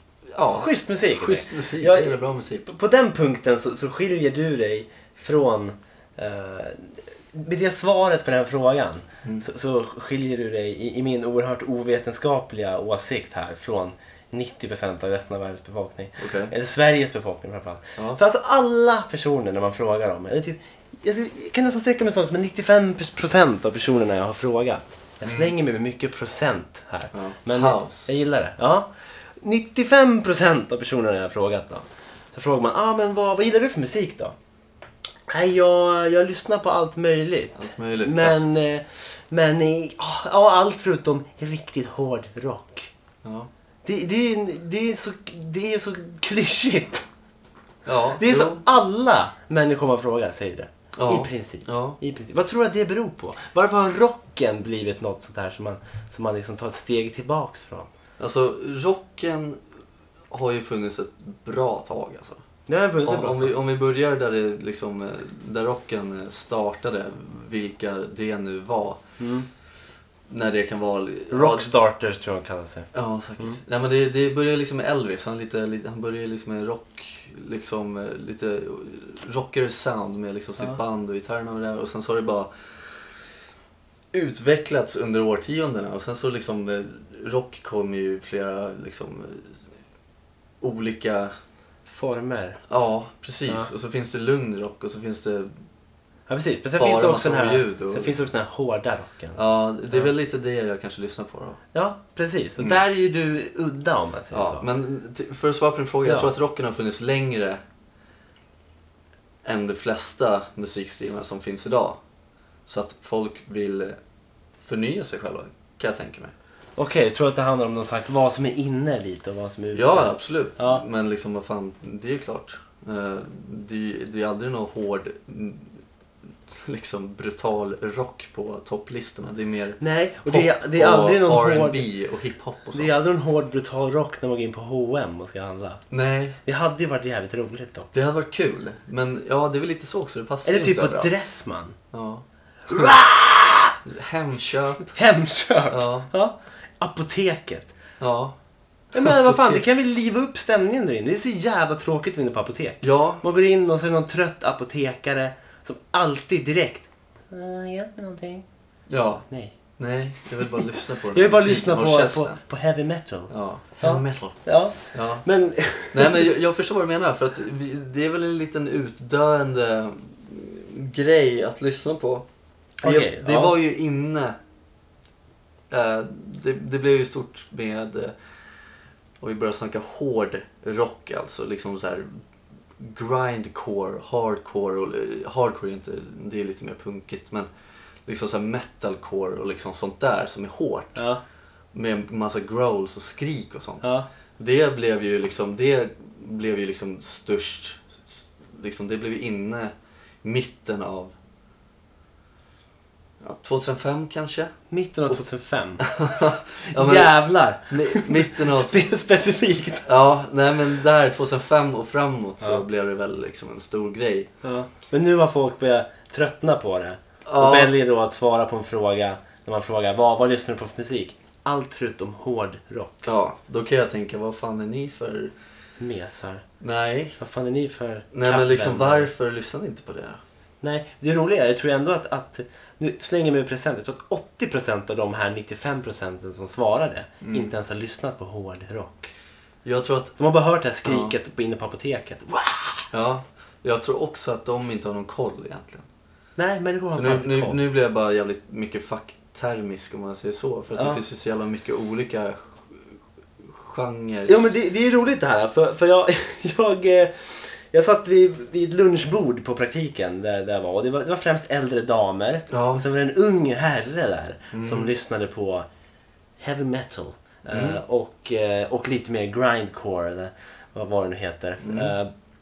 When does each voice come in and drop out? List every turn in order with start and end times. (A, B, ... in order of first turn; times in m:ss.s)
0:00.3-0:02.7 A
0:00.5-0:34.4 B
0:16.2-0:16.5 A
0:25.2-0:25.5 A
0:27.1-0:28.1 A
0:35.3-0:42.9 B
0:37.6-0:38.4 A
0:43.2-0:43.5 A
0:43.8-0:47.0 B
0:47.9-0:48.6 A
0:48.2-0:57.9 B
0:50.9-0:52.0 A
0:58.2-0:59.6 A
1:00.3-1:02.4 A
1:02.7-1:03.5 B
1:03.0-1:09.0 A
1:09.2-1:09.5 B
1:10.3-1:11.7 A
1:11.3-1:12.9 B
1:12.9-1:23.2 A
1:24.1-1:29.6 A
1:30.6-1:31.3 A
1:31.9-1:32.6 B
1:32.7-1:35.5 A
1:36.3-1:39.4 B
1:36.8-1:38.2 A
1:39.4-1:41.6 A
1:41.7-1:44.6 B
1:44.3-1:47.6 A
1:46.0-1:46.3 B
1:49.4-1:52.0 A
1:52.7-1:54.0 A
1:54.6-1:56.3 A
1:56.8-2:00.8 B
1:59.7-2:05.8 A
2:06.5-2:12.9 A
2:09.8-2:11.9 B
2:12.8-2:15.8 B
2:15.9-2:16.4 A
2:16.4-2:17.9 B
2:17.9-2:21.1 A
2:20.4-2:21.8 B
2:21.9-2:22.2 A
2:22.7-2:23.8 B
2:23.8-2:24.9 A
2:24.9-2:27.7 B
2:25.7-2:26.1 A
2:28.0-2:28.4 A
2:28.9-2:29.6 A
2:28.9-2:38.4 B
2:32.8-2:33.2 A
2:38.9-2:39.2 A
2:39.3-2:39.5 B
2:39.8-2:42.4 A
2:41.1-2:46.3 B
2:43.3-2:44.4 A
2:44.9-2:45.2 A
2:45.9-2:52.2 A
2:52.8-2:53.6 B
2:52.8-2:54.4 A
2:55.7-2:58.1 A
2:59.2-3:02.2 A
3:02.8-3:07.5 A
3:08.0-3:11.0 A
3:11.0-3:11.2 B
3:11.7-3:19.7 A
3:13.8-3:14.1 B
3:20.2-3:21.1 A
3:23.2-3:24.5 A
3:24.7-3:25.9 B
3:25.8-3:28.8 A
3:26.6-3:29.9 B
3:29.8-3:34.3 A
3:34.4-3:43.1 B
3:37.2-3:37.7 A
3:43.0-3:45.3 A
3:45.8-3:46.4 B
3:46.6-3:47.2 A
3:47.2-3:49.1 B
3:48.1-3:50.2 A
3:50.6-3:59.1 B
3:57.2-3:57.5 A
3:59.6-4:00.2 A
4:00.2-4:02.9 B
4:00.8-4:01.1 A
4:02.9-4:05.8 A
4:06.4-4:07.6 B
4:06.9-4:14.5 A
4:10.8-4:11.0 B
4:14.3-4:25.7 B
4:22.5-4:22.8 A
4:24.5-4:24.9 A
4:26.4-4:32.1 B
4:27.5-4:27.8 A
4:31.6-4:31.9 A